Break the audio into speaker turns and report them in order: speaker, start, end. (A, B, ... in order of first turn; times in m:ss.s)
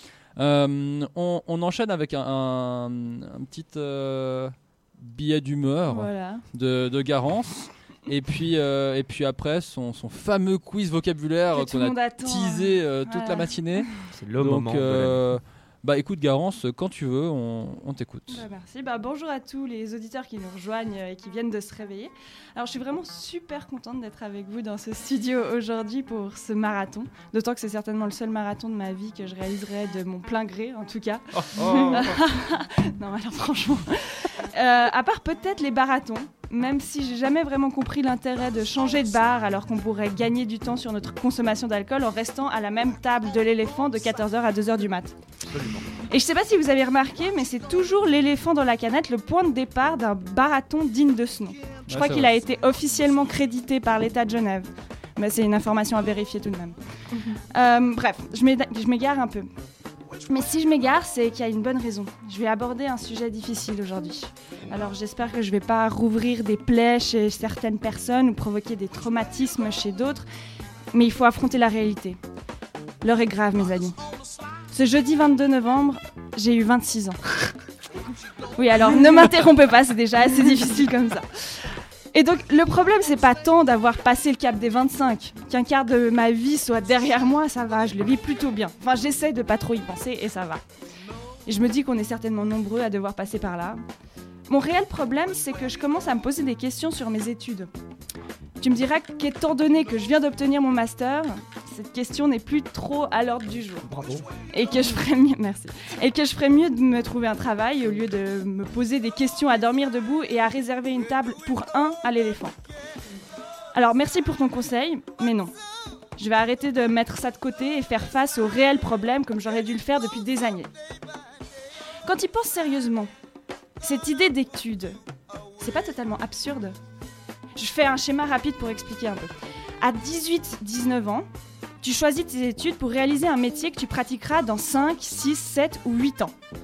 0:00.4-0:18.4 A
0:05.9-0:06.4 B
0:11.5-0:13.8 B
0:14.1-0:15.2 C
0:18.3-0:45.2 B
0:31.4-0:32.2 C
0:45.5-0:45.9 C
0:46.1-0:56.8 B
0:51.9-0:52.3 A
0:57.5-0:59.5 B
1:00.3-1:10.3 B
1:10.9-1:12.2 B
1:13.0-1:14.0 B
1:14.7-1:17.2 B
1:18.6-1:21.3 B
1:22.1-1:30.6 B
1:31.5-1:33.8 B
1:34.5-1:37.7 B
1:38.6-1:43.9 B
1:43.8-1:44.3 C
1:44.5-1:52.5 B
1:53.7-1:55.5 B
1:56.2-2:00.7 B
2:02.0-2:03.1 B
2:03.8-2:05.0 B
2:05.6-2:06.8 B
2:07.6-2:11.3 B
2:11.8-2:16.3 B